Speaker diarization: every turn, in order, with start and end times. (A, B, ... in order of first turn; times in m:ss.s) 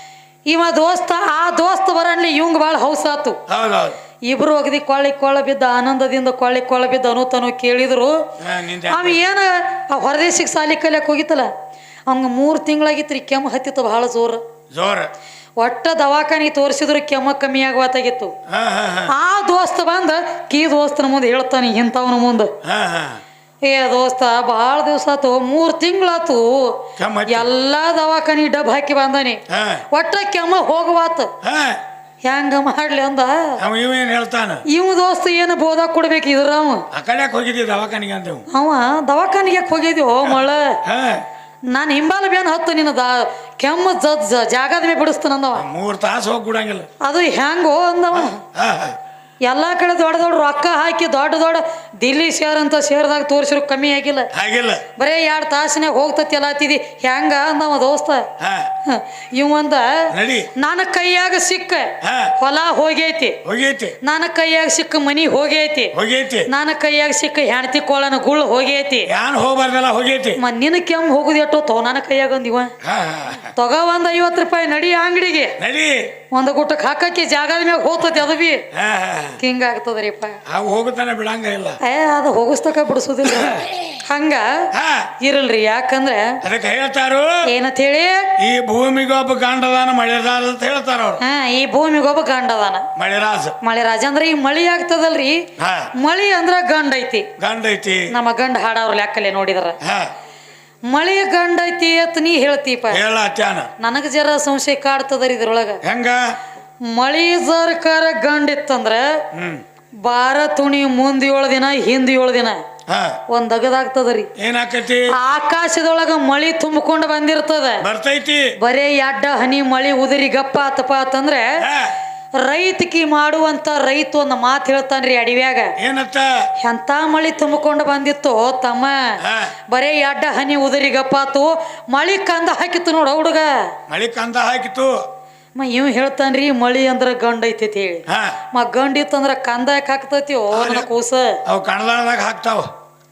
0:00.5-0:03.4 A
0:03.5-0:04.0 B
0:04.2-0:08.3 A
0:08.4-0:09.2 B
0:08.9-0:11.5 A
0:12.1-0:14.4 A
0:14.7-0:15.1 B
0:15.6-0:18.3 A
0:18.5-0:19.1 B
0:19.1-0:22.5 A
0:22.6-0:23.2 B
0:23.6-0:31.3 A
0:27.0-0:27.5 B
0:29.5-0:29.8 B
0:31.4-0:31.8 B
0:32.2-0:33.6 A
0:33.6-0:34.6 B
0:34.7-0:36.9 A
0:36.9-0:38.4 B
0:38.5-0:40.8 A
0:40.8-0:41.2 B
0:41.7-0:45.7 A
0:45.5-0:46.9 B
0:47.0-0:48.4 A
0:48.1-0:49.0 B
0:49.4-0:54.3 A
0:54.3-0:54.8 B
0:55.0-0:58.3 A
0:58.4-0:58.7 B
0:58.8-1:03.4 A
1:00.1-1:00.5 B
1:02.0-1:02.3 B
1:03.4-1:04.0 B
1:04.0-1:05.9 A
1:05.9-1:06.5 B
1:06.5-1:09.1 A
1:09.1-1:10.4 B
1:10.4-1:12.7 A
1:12.8-1:13.5 B
1:13.4-1:15.6 A
1:15.6-1:16.1 B
1:16.3-1:18.6 A
1:18.7-1:19.4 B
1:19.4-1:20.4 A
1:20.5-1:21.8 B
1:21.8-1:24.7 A
1:24.7-1:25.1 B
1:25.2-1:26.4 A
1:26.4-1:27.4 B
1:27.5-1:28.3 A
1:28.4-1:31.2 B
1:31.2-1:32.9 A
1:33.0-1:33.6 B
1:33.6-1:37.3 A
1:35.6-1:35.9 B
1:37.4-1:38.1 B
1:38.1-1:39.8 A
1:39.8-1:40.1 B
1:40.9-1:43.0 A
1:42.9-1:43.7 B
1:43.8-1:45.8 A
1:45.8-1:46.4 B
1:46.9-1:49.2 A
1:49.3-1:49.6 B
1:50.0-1:52.6 A
1:52.9-1:53.2 B
1:53.3-1:54.3 A
1:54.4-1:55.1 B
1:55.1-1:57.8 A
1:57.8-1:58.5 B
1:58.6-2:01.5 A
2:01.6-2:01.9 B
2:02.4-2:05.7 A
2:05.8-2:06.5 B
2:06.6-2:13.7 A
2:09.2-2:09.5 B
2:13.9-2:15.0 B
2:15.6-2:21.4 A
2:18.1-2:18.4 B
2:20.5-2:20.9 B
2:21.4-2:22.7 B